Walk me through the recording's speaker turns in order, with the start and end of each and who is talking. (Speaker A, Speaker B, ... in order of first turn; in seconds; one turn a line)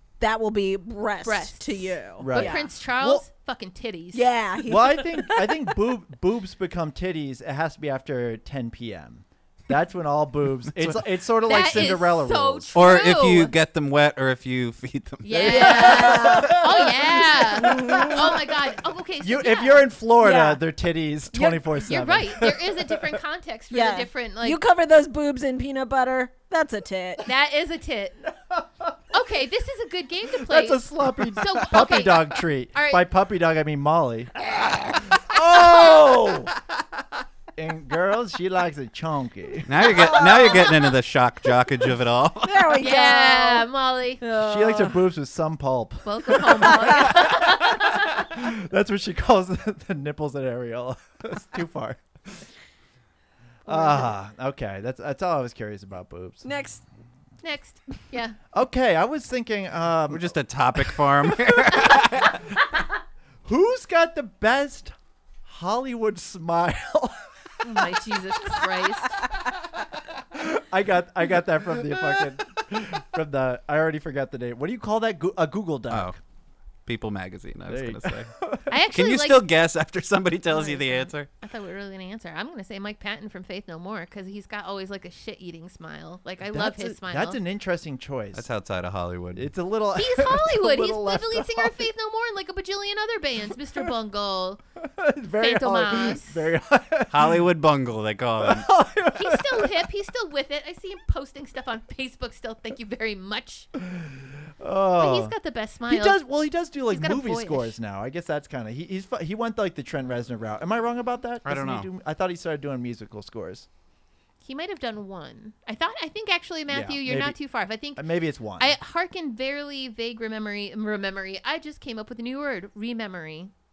Speaker A: 0.2-2.7
Speaker B: 1.2-4.2
Speaker C: 2.2-3.2
Speaker A: 4.1-5.6
Speaker C: 4.6-12.8
Speaker B: 11.4-13.5
Speaker D: 12.7-16.0
Speaker B: 15.2-19.9
Speaker A: 15.4-18.4
Speaker C: 15.5-18.5
Speaker C: 19.2-23.2
Speaker A: 20.2-20.6
Speaker B: 21.3-24.6
Speaker A: 23.7-27.3
Speaker B: 27.2-28.2
Speaker C: 28.5-28.9
Speaker B: 29.1-33.0
Speaker C: 30.2-34.3
Speaker B: 34.6-36.2
Speaker C: 35.0-36.5
Speaker C: 37.5-40.5
Speaker D: 39.6-42.8
Speaker A: 39.9-40.9
Speaker A: 42.4-43.7
Speaker B: 42.8-44.2
Speaker A: 44.2-45.0
Speaker C: 44.3-52.5
Speaker B: 46.0-48.2
Speaker A: 46.6-47.2
Speaker C: 53.6-56.5
Speaker A: 53.7-54.0
Speaker A: 56.4-56.8
Speaker B: 57.4-58.4
Speaker C: 58.5-62.4
Speaker D: 60.1-62.4
Speaker C: 63.4-67.2
Speaker B: 67.6-69.2
Speaker C: 70.3-76.2
Speaker D: 75.9-76.2
Speaker D: 76.8-78.3
Speaker C: 77.7-78.7
Speaker B: 78.7-79.5
Speaker D: 78.9-81.3
Speaker B: 80.5-87.4
Speaker C: 86.5-88.5
Speaker D: 88.3-89.5
Speaker C: 89.3-91.9
Speaker B: 90.0-94.6
Speaker C: 94.8-97.5
Speaker B: 95.4-96.5
Speaker D: 97.1-98.7
Speaker C: 98.4-99.8
Speaker B: 99.1-103.7
Speaker C: 103.8-105.3
Speaker B: 105.0-106.2
Speaker C: 105.9-113.7
Speaker B: 106.9-107.8
Speaker D: 111.4-111.9
Speaker B: 114.4-123.5
Speaker C: 116.7-117.4
Speaker C: 117.9-118.7